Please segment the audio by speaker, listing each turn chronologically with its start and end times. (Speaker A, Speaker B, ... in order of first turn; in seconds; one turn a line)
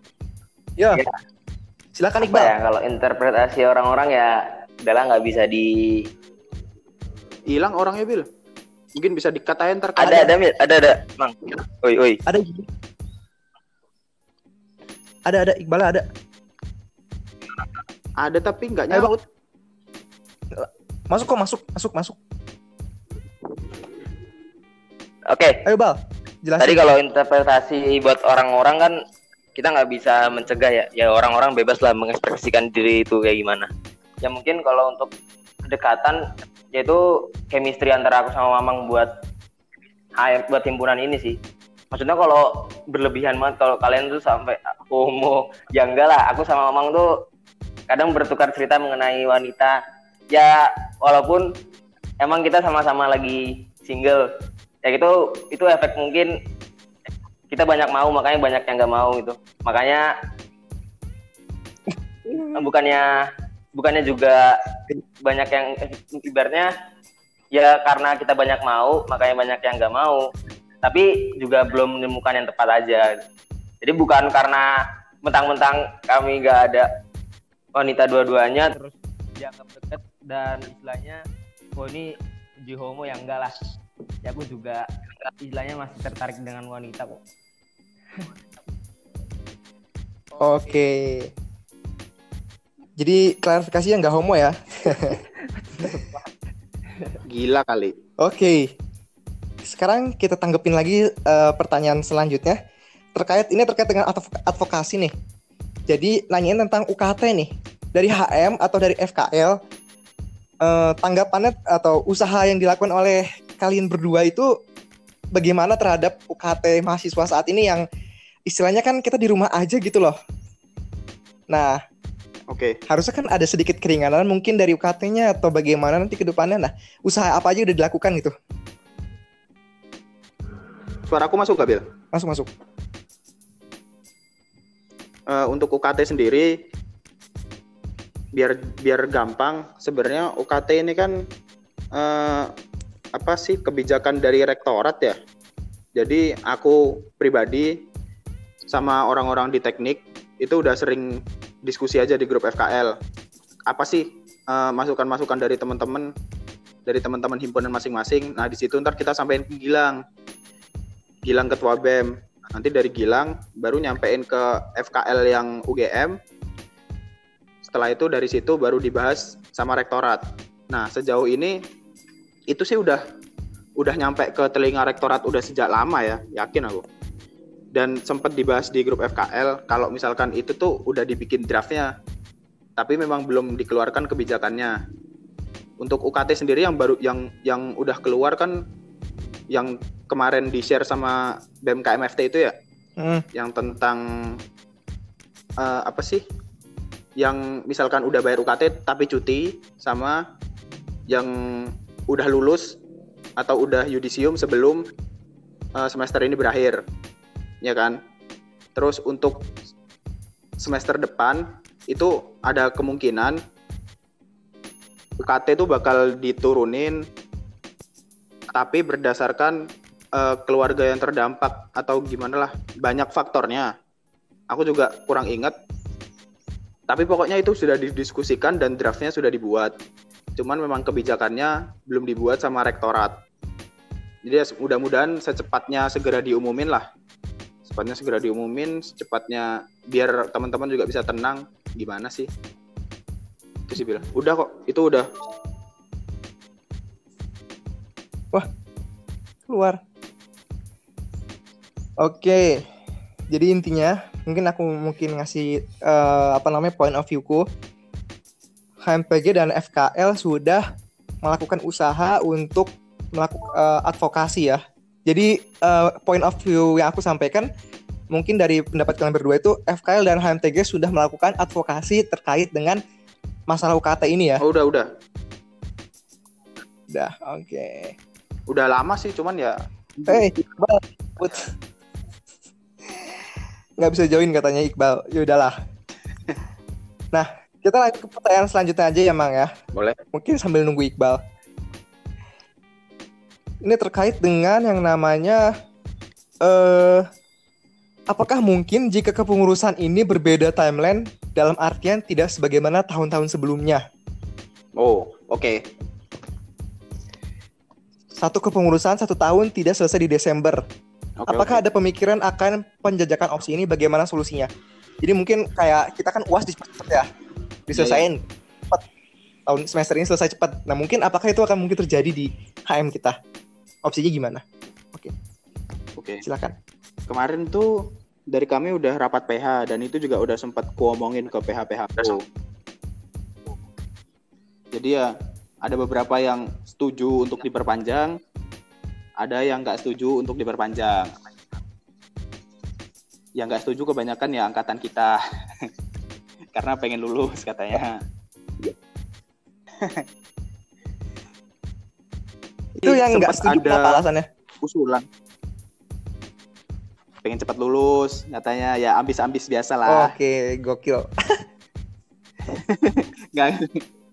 Speaker A: 1.9-2.5
Speaker B: 2.2-6.0
Speaker C: 7.5-8.3
Speaker C: 8.9-10.3
Speaker B: 10.0-12.2
Speaker A: 12.3-12.7
Speaker A: 15.3-16.1
Speaker C: 18.2-19.2
Speaker A: 20.5-22.2
Speaker B: 25.3-25.6
Speaker A: 25.6-27.0
Speaker B: 26.6-29.0
Speaker B: 29.6-33.7
Speaker B: 34.2-35.1
Speaker B: 35.6-36.2
Speaker B: 36.7-39.1
Speaker B: 40.2-41.4
Speaker B: 41.9-47.1
Speaker B: 47.9-49.8
Speaker B: 50.3-51.5
Speaker B: 52.2-54.3
Speaker B: 54.8-56.3
Speaker B: 57.5-60.1
Speaker B: 62.5-63.1
Speaker B: 63.8-64.6
Speaker B: 65.2-66.7
Speaker B: 67.5-70.2
Speaker B: 70.8-73.2
Speaker B: 73.8-74.7
Speaker B: 75.2-76.9
Speaker B: 77.8-81.2
Speaker B: 81.8-82.1
Speaker B: 82.7-83.7
Speaker B: 84.2-87.2
Speaker A: 90.4-91.3
Speaker A: 93.0-95.2
Speaker B: 95.6-96.0
Speaker A: 95.8-96.1
Speaker C: 97.3-97.9
Speaker A: 98.2-98.7
Speaker A: 99.6-102.6
Speaker A: 103.2-105.1
Speaker A: 105.9-109.5
Speaker A: 110.6-114.5
Speaker A: 115.3-117.8
Speaker A: 118.5-120.2
Speaker A: 121.5-121.8
Speaker C: 122.5-122.8
Speaker A: 122.9-128.3
Speaker C: 131.1-131.9
Speaker A: 132.1-132.5
Speaker C: 135.3-136.5
Speaker C: 138.3-141.2
Speaker C: 141.9-142.5
Speaker C: 143.1-145.2
Speaker C: 145.9-147.8
Speaker C: 148.7-151.1
Speaker C: 151.6-152.9
Speaker C: 153.7-156.1
Speaker C: 156.8-160.0
Speaker C: 161.3-166.2
Speaker C: 167.7-171.6
Speaker C: 172.5-173.0
Speaker C: 173.8-176.8
Speaker C: 177.7-181.9
Speaker C: 182.8-184.8
Speaker C: 185.8-188.6
Speaker C: 189.5-192.5
Speaker A: 193.0-193.2
Speaker C: 193.3-194.4
Speaker C: 195.6-196.2
Speaker C: 197.2-200.2
Speaker C: 201.1-202.8
Speaker C: 203.4-204.8
Speaker C: 205.8-206.8
Speaker C: 207.6-208.0
Speaker C: 208.7-209.5
Speaker C: 210.6-213.4
Speaker C: 215.2-217.0
Speaker C: 218.5-219.6
Speaker C: 220.1-223.7
Speaker C: 224.5-225.5
Speaker C: 226.9-229.7
Speaker C: 230.4-233.1
Speaker C: 234.2-236.8
Speaker C: 237.7-242.3
Speaker C: 243.7-245.1
Speaker A: 249.5-249.8
Speaker A: 252.0-252.6
Speaker A: 253.3-257.4
Speaker A: 258.9-260.6
Speaker A: 261.2-267.5
Speaker A: 268.1-272.8
Speaker A: 273.5-274.4
Speaker C: 274.4-274.9
Speaker A: 276.9-277.9
Speaker C: 278.5-280.2
Speaker A: 280.1-281.5
Speaker A: 282.9-283.2
Speaker A: 283.8-285.6
Speaker A: 287.1-289.5
Speaker C: 289.7-290.0
Speaker A: 290.1-291.2
Speaker A: 293.6-295.4
Speaker A: 296.4-297.0
Speaker A: 298.1-303.8
Speaker C: 304.8-305.6
Speaker A: 308.2-310.6
Speaker C: 311.2-311.6
Speaker A: 311.3-314.5
Speaker A: 315.0-317.1
Speaker A: 317.7-318.8
Speaker C: 317.7-318.1
Speaker A: 319.5-323.1
Speaker A: 323.8-325.1
Speaker C: 326.0-326.2
Speaker A: 326.2-326.5
Speaker C: 327.1-327.7
Speaker C: 328.3-332.2
Speaker C: 334.7-335.1
Speaker C: 335.6-338.1
Speaker C: 339.2-341.1
Speaker C: 343.4-345.7
Speaker C: 346.5-348.0
Speaker C: 349.8-350.0
Speaker A: 352.8-354.3
Speaker C: 352.8-354.0
Speaker C: 354.6-355.1
Speaker C: 357.2-360.1
Speaker A: 359.9-361.4
Speaker C: 362.5-363.8